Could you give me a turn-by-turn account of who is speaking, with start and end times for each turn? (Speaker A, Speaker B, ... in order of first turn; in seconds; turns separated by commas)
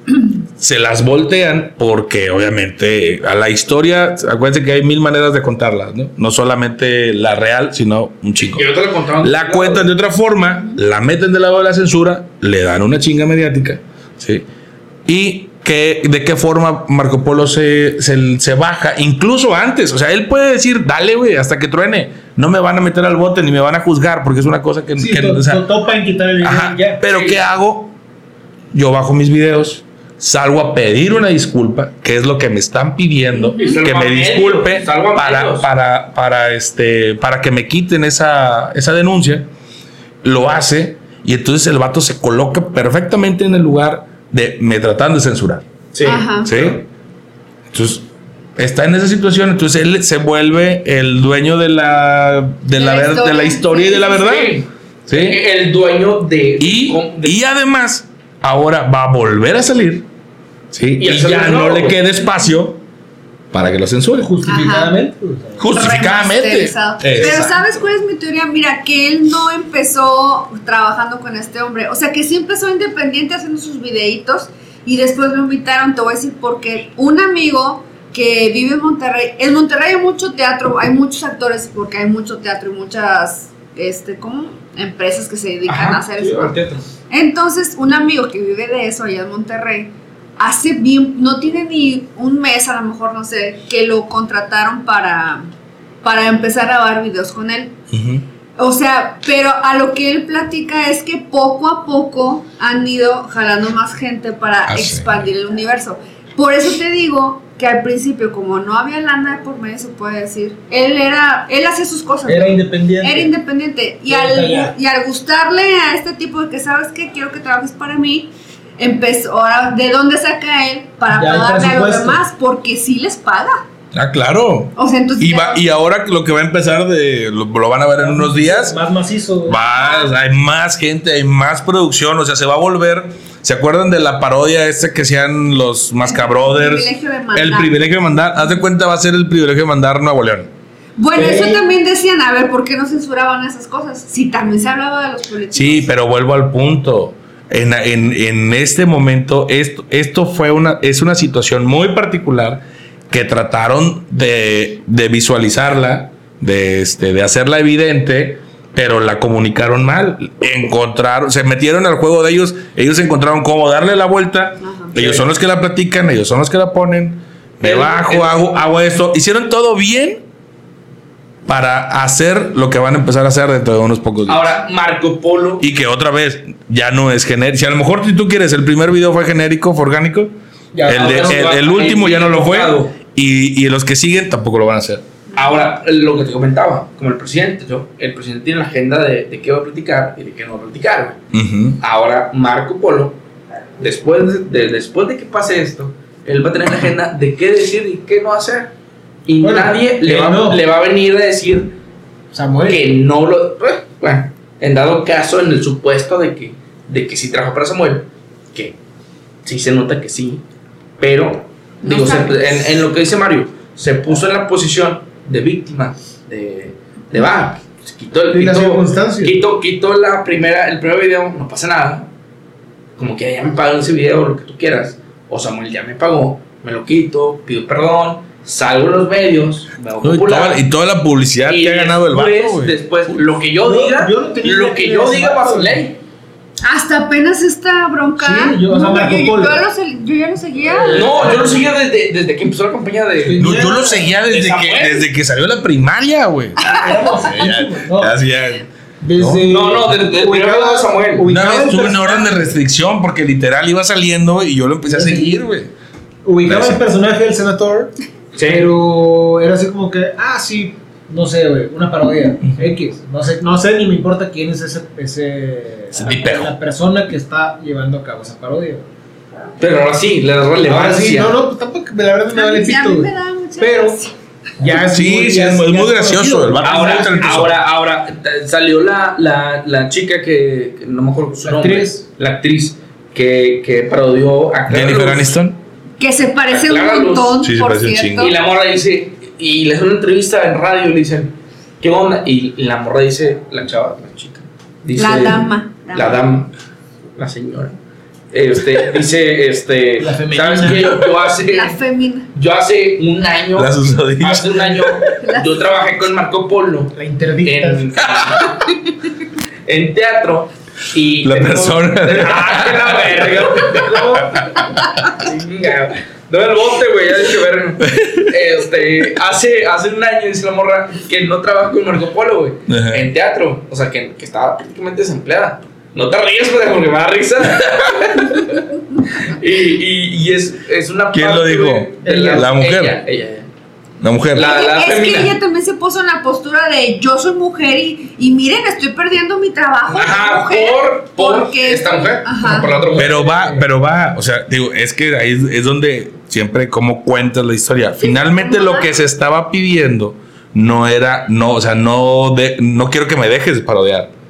Speaker A: 0.6-8.7, Speaker B: 8.4-9.9, Speaker A: 9.2-14.4, Speaker A: 15.1-25.6, Speaker C: 25.0-27.0, Speaker A: 26.4-27.9, Speaker B: 27.1-27.4, Speaker A: 28.7-39.5, Speaker D: 33.4-33.8, Speaker B: 33.6-35.7, Speaker A: 40.2-45.6, Speaker B: 45.9-46.7, Speaker D: 46.0-46.5, Speaker A: 46.4-46.8, Speaker A: 47.7-54.6, Speaker D: 52.7-54.4, Speaker B: 54.2-57.4, Speaker A: 55.1-55.4, Speaker A: 56.6-60.0, Speaker A: 60.7-62.8, Speaker B: 61.0-62.0, Speaker A: 63.5-64.3, Speaker C: 64.2-65.7, Speaker D: 64.4-64.9, Speaker A: 65.6-67.5, Speaker D: 65.7-86.5, Speaker B: 67.1-67.6, Speaker B: 85.7-86.8, Speaker D: 87.1-95.5, Speaker D: 96.0-97.7, Speaker A: 97.9-98.2, Speaker D: 98.6-123.6, Speaker A: 104.7-105.2, Speaker C: 112.2-113.3, Speaker C: 114.1-114.7, Speaker C: 121.1-122.2, Speaker A: 123.9-128.8, Speaker D: 124.8-125.6, Speaker C: 128.0-129.6, Speaker A: 129.5-140.5, Speaker D: 129.5-130.1, Speaker D: 136.0-137.8, Speaker D: 141.0-145.9, Speaker C: 141.1-141.6, Speaker A: 145.5-170.2, Speaker D: 164.6-164.9, Speaker B: 165.0-165.2, Speaker B: 167.6-168.4, Speaker A: 171.4-174.5, Speaker B: 174.3-175.6, Speaker A: 175.6-180.3, Speaker C: 180.7-181.6, Speaker B: 180.8-182.9, Speaker A: 180.8-185.0, Speaker B: 185.3-191.2, Speaker A: 191.3-191.8, Speaker B: 191.8-193.2, Speaker B: 193.8-198.7, Speaker B: 199.2-201.7, Speaker C: 199.4-200.6, Speaker C: 202.3-202.9, Speaker B: 202.7-208.8, Speaker B: 209.4-210.4, Speaker B: 211.0-222.1, Speaker D: 211.8-212.5, Speaker C: 218.3-219.4, Speaker B: 223.0-230.6, Speaker A: 230.0-232.8, Speaker B: 231.4-236.0, Speaker C: 233.6-235.8, Speaker D: 236.6-241.3, Speaker C: 238.2-239.7, Speaker C: 240.6-241.7, Speaker B: 240.9-243.6, Speaker C: 243.2-244.1, Speaker A: 243.4-249.5, Speaker B: 244.1-245.1, Speaker D: 246.7-246.9, Speaker C: 246.7-248.2, Speaker C: 249.0-252.4, Speaker B: 249.5-251.3, Speaker A: 251.3-255.7, Speaker C: 254.9-255.4, Speaker C: 256.2-268.9, Speaker A: 256.4-256.8, Speaker B: 258.4-258.7, Speaker A: 265.9-266.5, Speaker B: 269.6-271.4, Speaker C: 270.6-274.0, Speaker D: 272.3-274.1, Speaker C: 274.6-277.6, Speaker A: 274.7-277.6, Speaker B: 276.6-285.3, Speaker C: 281.4-282.0, Speaker A: 284.7-285.6, Speaker D: 286.0-288.3, Speaker B: 286.5-287.4, Speaker A: 287.4-288.3, Speaker B: 288.2-296.5, Speaker D: 295.0-296.2, Speaker B: 297.2-297.8, Speaker B: 298.3-301.8, Speaker C: 300.0-301.1, Speaker D: 301.5-302.3, Speaker B: 302.3-308.6, Speaker A: 303.5-304.8, Speaker D: 305.2-305.5, Speaker C: 306.9-307.9, Speaker A: 308.1-308.4, Speaker B: 309.7-333.5, Speaker A: 311.2-314.4, Speaker A: 317.8-318.3, Speaker A: 322.7-323.1, Speaker A: 331.1-333.0, Speaker C: 332.0-332.5, Speaker A: 334.0-334.5, Speaker B: 334.3-335.4, Speaker D: 334.4-342.7, Speaker B: 339.9-343.5, Speaker C: 342.8-343.6, Speaker A: 343.0-354.1, Speaker D: 348.0-348.9